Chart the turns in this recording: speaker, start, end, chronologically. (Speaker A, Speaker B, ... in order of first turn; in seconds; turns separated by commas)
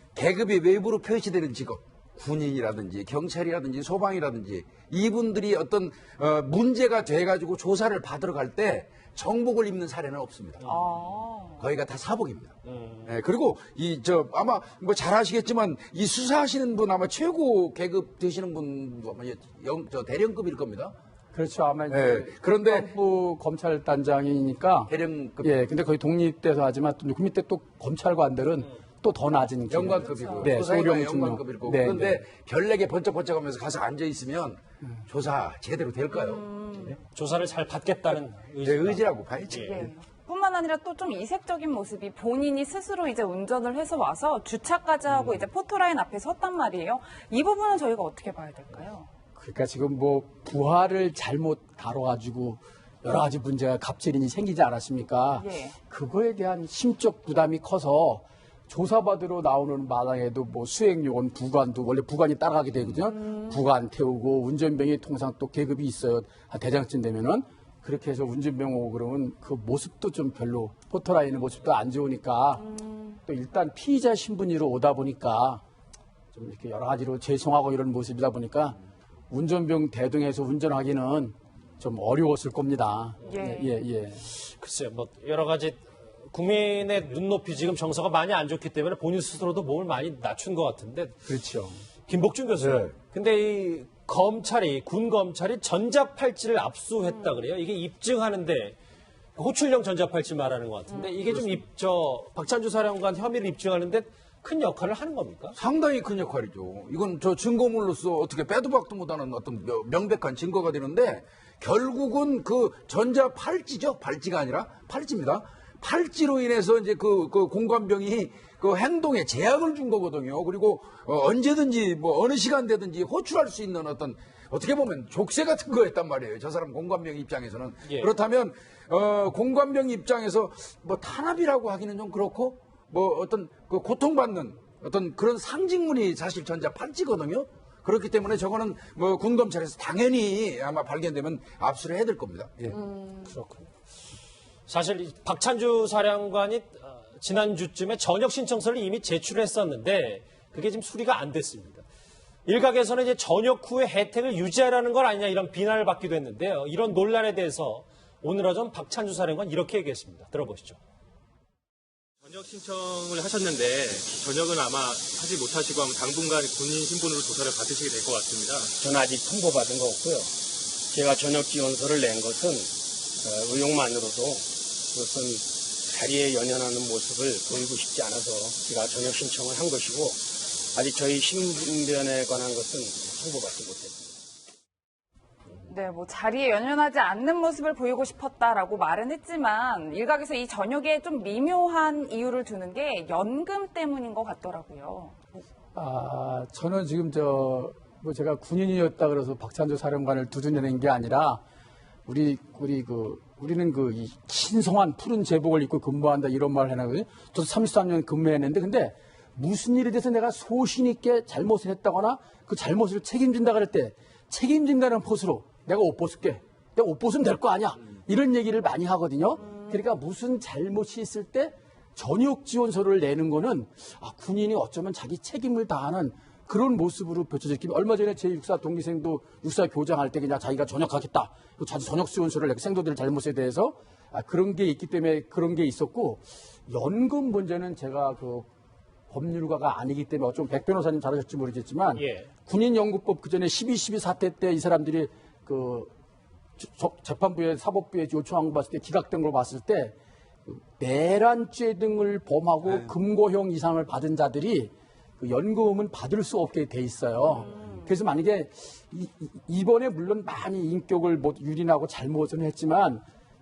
Speaker A: 0.1-10.6, Speaker B: 10.6-11.2, Speaker C: 10.7-11.7, Speaker A: 11.6-20.9, Speaker B: 12.7-13.1, Speaker D: 21.3-32.2, Speaker A: 21.9-22.9, Speaker A: 24.9-25.6, Speaker A: 29.7-36.5, Speaker C: 30.0-30.5, Speaker C: 36.1-37.0, Speaker B: 37.1-39.8, Speaker A: 38.6-39.9, Speaker C: 39.6-49.1, Speaker D: 49.4-72.7, Speaker C: 55.3-55.8, Speaker C: 63.0-63.6, Speaker C: 72.6-73.2, Speaker D: 73.3-75.6, Speaker D: 76.3-78.8, Speaker D: 79.3-84.3, Speaker C: 83.2-83.7, Speaker B: 84.3-91.2, Speaker D: 91.3-91.8, Speaker B: 92.1-98.8, Speaker B: 99.4-105.6, Speaker A: 105.6-142.7, Speaker C: 142.7-143.3, Speaker B: 143.3-143.7, Speaker B: 144.7-151.8, Speaker B: 152.5-160.8, Speaker E: 162.2-168.7, Speaker F: 168.8-184.2, Speaker C: 185.7-195.2, Speaker D: 195.8-201.4, Speaker D: 202.1-238.5, Speaker C: 219.4-219.8, Speaker D: 239.1-245.9, Speaker B: 242.0-242.3, Speaker D: 246.6-263.1, Speaker C: 257.3-257.9